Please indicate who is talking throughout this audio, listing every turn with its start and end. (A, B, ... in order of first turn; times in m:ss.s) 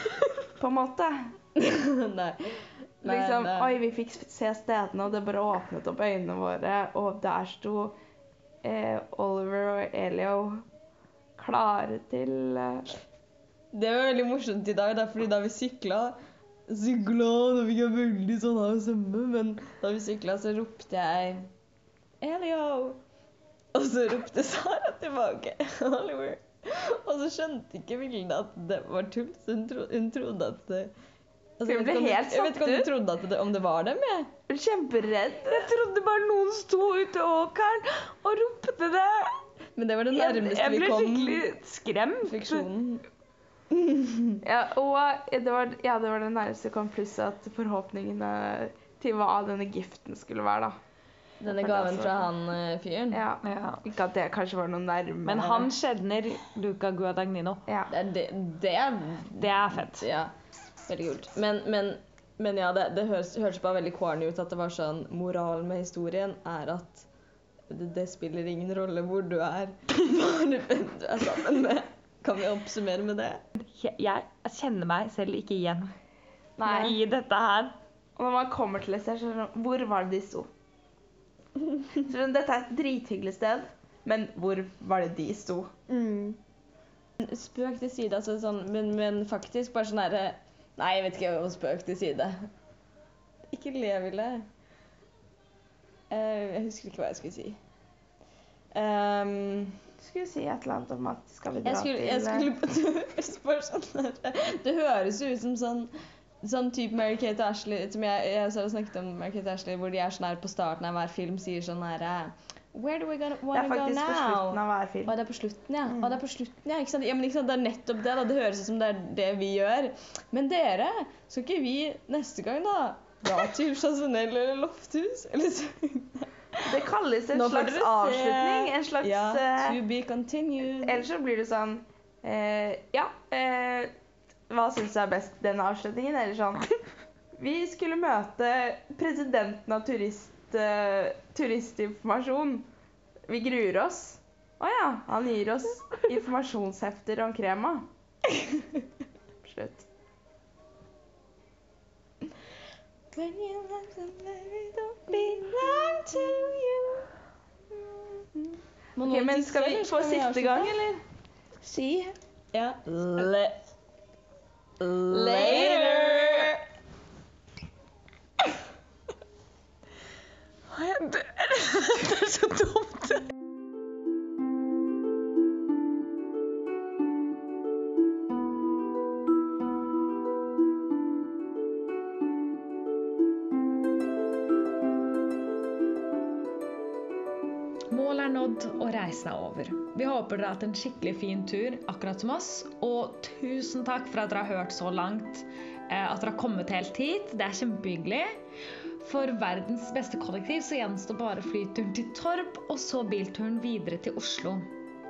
0:00.6-0:01.4 A
0:01.6-0:03.8 B
0:03.0-0:08.0 A
0:08.6-0:10.6 A
0:11.4-0:12.9 A
0:13.7-0:16.2 B
0:16.7-0:21.5 B
0:22.2-0:23.0 B
0:23.7-0:30.9 B
0:31.6-0:34.3 B
0:31.7-0:32.9 A
0:34.5-0:35.7 A
0:35.5-0:39.4 C
0:39.8-0:41.5 B
0:40.1-0:42.7 C
0:42.2-0:43.0 B
0:43.7-0:44.4 B
0:44.4-0:50.8 A
0:51.4-0:53.2 B
0:51.5-0:52.3 A
0:53.1-0:55.8 A
0:53.4-0:53.8 C
0:55.2-0:57.6 C
0:57.9-1:00.3 B
0:59.4-1:00.0 C
1:00.9-1:07.1 B
1:07.7-1:13.4 B
1:13.6-1:15.9 C
1:16.6-1:17.0 A
1:16.6-1:17.8 C
1:18.2-1:20.5 A
1:22.0-1:25.7 A
1:25.9-1:26.4 B
1:27.2-1:32.4 B
1:33.5-1:34.4 B
1:36.1-1:37.6 B
1:38.7-1:39.8 B
1:40.0-1:42.5 A
1:41.6-1:45.9 B
1:46.4-2:06.6 B
1:53.5-1:55.2 A
2:06.7-2:09.8 A
2:07.3-2:11.1 B
2:10.8-2:13.9 A
2:14.5-2:16.7 A
2:17.4-2:22.7 A
2:23.3-2:27.9 A
2:29.4-2:29.9 A
2:33.2-2:37.0 B
2:39.0-2:40.8 B
2:39.0-2:41.0 A
2:41.6-2:42.2 A
2:42.5-2:43.6 B
2:44.8-2:46.6 B
2:45.1-2:46.5 A
2:50.7-2:53.2 C
3:07.9-3:18.3 C
3:19.0-3:24.7 C